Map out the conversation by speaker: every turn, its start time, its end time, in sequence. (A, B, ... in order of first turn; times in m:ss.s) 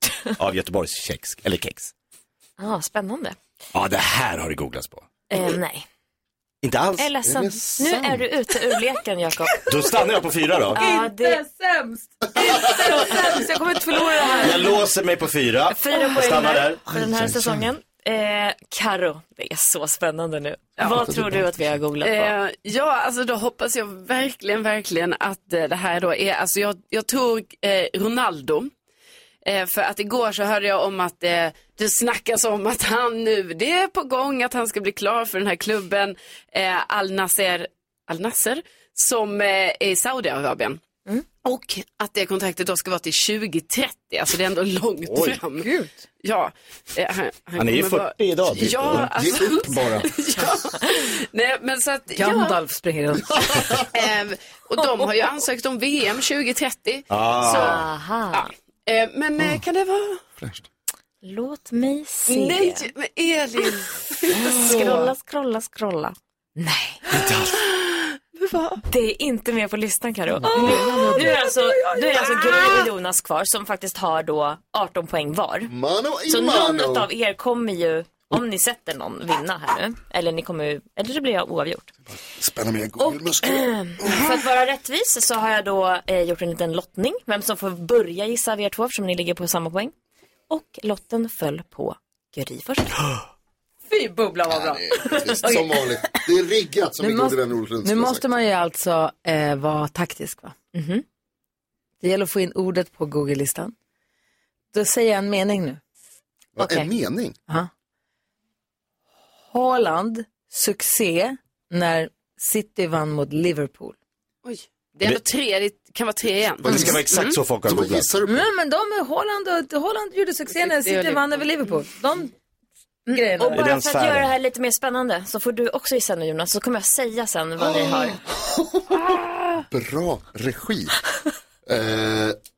0:00.4-0:01.9 A
0:02.6-0:03.4 B
0:03.7-0:05.4 A
0:05.3-0:05.9 B
0:06.6-0:08.2 A
0:07.0-0:09.7 B
0:07.2-0:08.0 C
0:09.6-0:10.8 A
0:10.7-0:11.4 B
0:10.8-0:14.8 D
0:12.7-0:14.7 B
0:14.4-0:17.4 A
0:15.7-0:22.3 B
0:22.0-0:28.7 E
0:29.4-0:40.8 E
0:41.4-0:45.7 E
0:45.1-0:45.4 A
0:46.2-0:52.6 E
0:47.6-0:49.1 A
0:48.5-0:50.2 C
0:52.2-0:53.6 D
0:53.9-1:00.2 E
0:57.1-0:57.9 A
0:57.6-0:58.5 B
1:00.4-1:00.6 C
1:01.2-1:02.9 B
1:02.3-1:05.1 E
1:04.3-1:07.0 B
1:07.2-1:07.5 A
1:08.4-1:08.8 E
1:08.9-1:15.7 B
1:10.8-1:11.0 D
1:15.7-1:17.1 C
1:16.3-1:21.9 B
1:22.3-1:24.3 C
1:23.0-1:29.9 B
1:30.5-1:33.1 B
1:33.9-1:35.9 D
1:34.5-1:38.3 C
1:37.0-1:40.6 D
1:40.7-1:41.0 B
1:42.0-1:43.7 D
1:44.7-1:45.8 D
1:46.6-1:47.4 C
1:46.6-1:46.9 D
1:49.5-1:54.0 D
1:54.4-1:57.4 E
1:56.6-1:57.0 C
1:56.6-1:58.1 A
1:57.6-1:58.5 C
1:58.3-2:02.3 D
2:00.6-2:01.2 E
2:03.1-2:08.2 B
2:03.1-2:03.6 D
2:03.5-2:04.3 A
2:09.7-2:10.9 C
2:11.6-2:12.4 C